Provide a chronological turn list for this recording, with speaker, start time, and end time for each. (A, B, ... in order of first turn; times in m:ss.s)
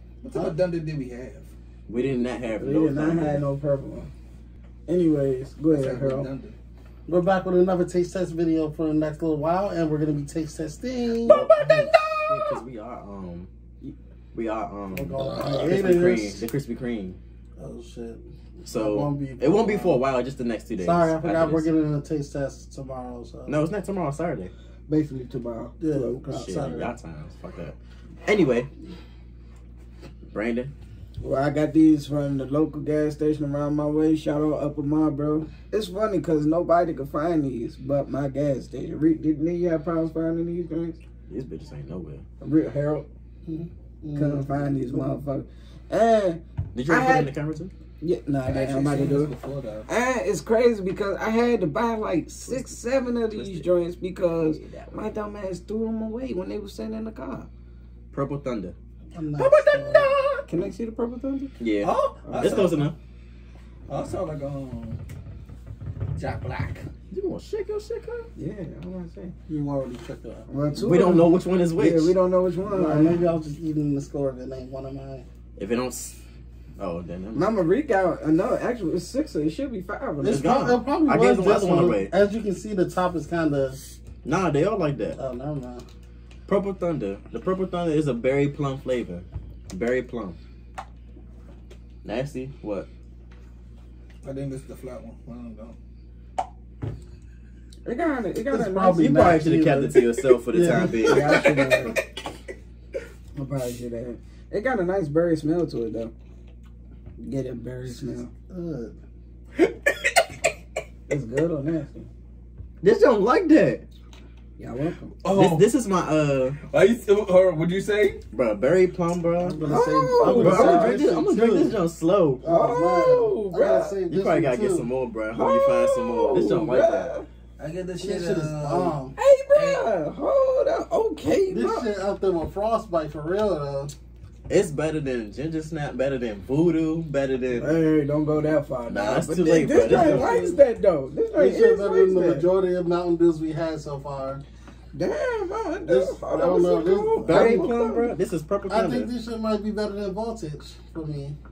0:00.2-0:01.5 A
0:01.9-0:03.4 B
0:02.6-0:04.1 C
0:04.9-0:06.3 C
0:05.7-0:06.6 A
0:07.1-0:12.6 D
0:11.2-0:13.5 B
0:14.3-0:17.2 B
0:14.9-0:16.4 D
0:15.2-0:15.8 C
0:17.6-0:20.0 D
0:18.6-0:21.7 B
0:20.8-0:23.6 D
0:23.5-0:24.5 B
0:24.9-0:26.6 C
0:25.8-0:26.9 D
0:26.3-0:28.7 B
0:30.3-0:30.7 B
0:31.2-0:41.0 C
0:41.3-0:42.2 B
0:42.4-0:43.1 C
0:43.4-0:45.1 D
0:44.1-0:47.3 C
0:46.7-0:47.7 B
0:48.0-0:49.3 C
0:48.4-0:49.9 A
0:49.9-0:57.5 C
0:52.4-0:52.7 B
0:53.3-0:53.7 B
0:54.4-0:54.9 B
0:58.1-0:58.8 B
0:59.1-1:00.1 D
0:59.4-1:00.4 B
1:00.4-1:01.6 C
1:01.6-1:03.0 B
1:01.8-1:02.7 A
1:02.2-1:02.8 C
1:03.9-1:05.0 A
1:06.1-1:06.9 A
1:07.1-1:08.3 B
1:08.4-1:09.3 C
1:09.5-1:10.5 D
1:10.5-1:13.2 C
1:10.8-1:12.1 B
1:12.6-1:15.2 D
1:15.6-1:16.2 B
1:16.8-1:17.5 B
1:17.3-1:20.5 C
1:20.2-1:23.8 D
1:20.2-1:22.1 B
1:24.2-1:25.2 B
1:25.1-1:25.8 D
1:26.5-1:30.4 B
1:32.0-1:32.9 B
1:34.2-1:35.8 A
1:37.8-1:39.2 C
1:38.5-1:42.0 D
1:39.0-1:41.5 B
1:40.8-1:42.0 C
1:43.3-1:46.1 C
1:47.2-1:48.3 C
1:48.5-1:49.0 D
1:51.1-1:52.1 C
1:52.8-1:53.8 B
1:54.6-1:55.2 C
1:55.2-1:55.7 A
1:55.3-1:56.6 B
1:56.6-1:58.2 A
1:58.3-1:59.6 B
1:59.4-2:01.8 D
1:59.6-2:01.0 C
2:00.2-2:02.4 B
2:02.4-2:04.9 D
2:02.4-2:04.0 C
2:04.1-2:07.1 B
2:05.3-2:07.3 C
2:07.6-2:09.0 A
2:08.0-2:09.1 D
2:09.2-2:11.8 C
2:09.5-2:09.9 A
2:11.4-2:13.9 D
2:14.5-2:17.7 B
2:17.6-2:22.5 C
2:18.9-2:20.5 B
2:19.8-2:20.6 D
2:21.4-2:24.4 D
2:24.9-2:28.1 C
2:25.8-2:27.7 D
2:27.2-2:29.1 B
2:28.7-2:31.4 D